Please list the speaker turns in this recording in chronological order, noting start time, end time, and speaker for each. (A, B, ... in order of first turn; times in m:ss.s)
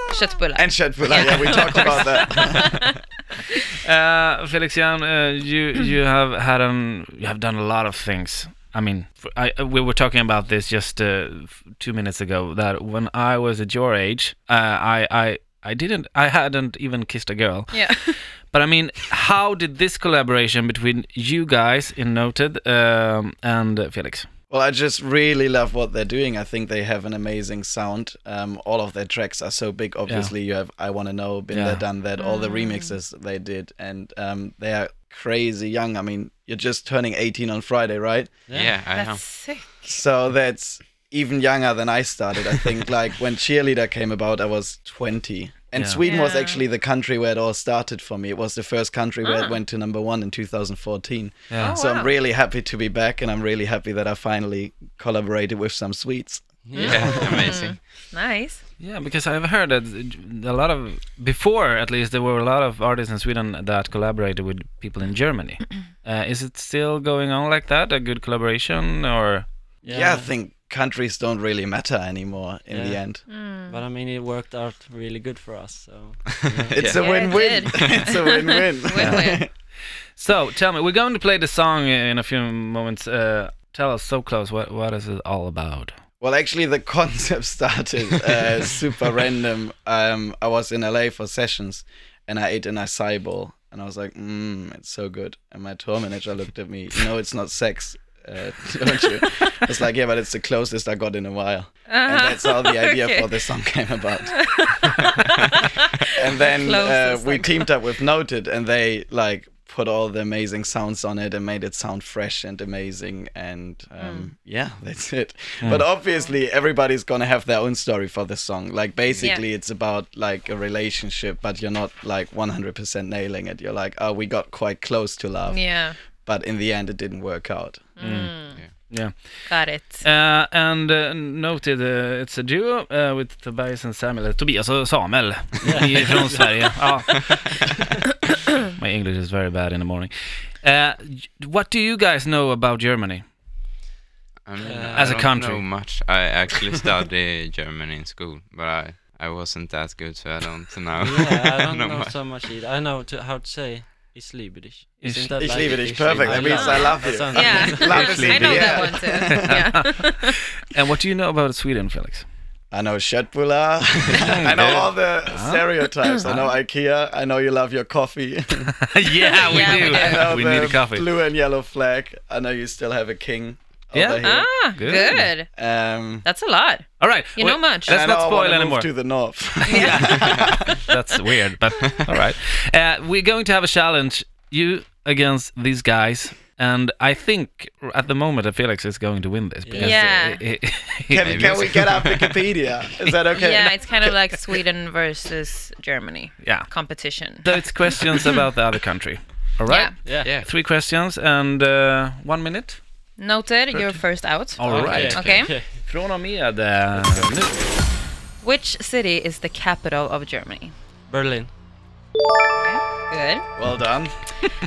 0:00.1-0:03.0 A
0:00.6-0:02.9 B
0:03.8-0:24.3 C
0:17.7-0:18.2 A
0:24.5-0:38.3 B
0:30.1-0:30.3 C
0:31.5-0:31.8 C
0:32.2-0:33.0 A
0:38.5-0:38.9 D
0:38.5-0:39.4 E
0:38.9-0:39.8 A
0:39.9-0:56.6 B
0:45.8-0:46.0 C
0:46.0-0:46.6 A
0:49.2-0:49.6 A
0:51.5-0:51.8 C
0:51.6-0:52.1 A
0:56.7-0:57.4 D
0:56.8-0:58.6 A
0:56.8-0:57.8 E
0:58.8-1:09.5 C
1:09.8-1:10.3 D
1:09.9-1:13.2 B
1:12.7-1:16.9 D
1:13.3-1:13.8 A
1:16.6-1:18.1 E
1:16.7-1:19.5 B
1:16.9-1:19.4 A
1:19.0-1:19.6 C
1:20.2-1:25.9 C
1:26.2-1:44.7 B
1:41.9-1:43.4 A
1:44.3-1:47.7 A
1:46.1-2:07.9 B
1:54.0-1:54.3 A
1:59.2-1:59.4 A
2:05.5-2:06.0 A
2:08.0-2:08.6 A
2:08.0-2:17.6 C
2:09.5-2:10.1 A
2:15.6-2:16.9 D
2:18.7-2:23.2 C
2:24.4-2:32.4 E
2:24.6-2:25.2 D
2:25.0-2:25.7 C
2:31.0-2:38.8 D
2:35.0-2:35.4 C
2:35.4-2:39.6 B
2:36.4-2:40.6 A
2:39.4-2:40.0 C
2:40.6-2:42.3 C
2:42.7-2:48.8 B
2:44.3-2:45.7 C
2:48.9-2:51.1 C
2:49.3-2:50.3 A
2:49.5-2:56.3 B
2:53.9-2:55.3 C
2:54.2-2:55.6 A
2:56.2-2:58.0 A
2:57.0-2:58.9 C
2:57.9-3:00.8 B
2:59.6-3:00.5 A
3:00.9-3:11.6 C
3:09.6-3:10.0 D
3:09.7-3:10.5 A
3:11.1-3:14.1 B
3:11.2-3:12.4 E
3:13.4-3:18.4 A
3:16.4-3:22.8 C
3:19.7-3:20.0 A
3:20.0-3:20.3 D
3:20.2-3:20.5 E
3:23.2-3:25.5 A
3:23.7-3:27.7 C
3:24.6-3:25.8 D
3:24.7-3:25.4 E
3:27.0-3:27.4 D
3:28.4-3:30.7 A
3:31.1-3:31.5 D
3:32.6-3:33.4 A
3:33.6-3:34.3 B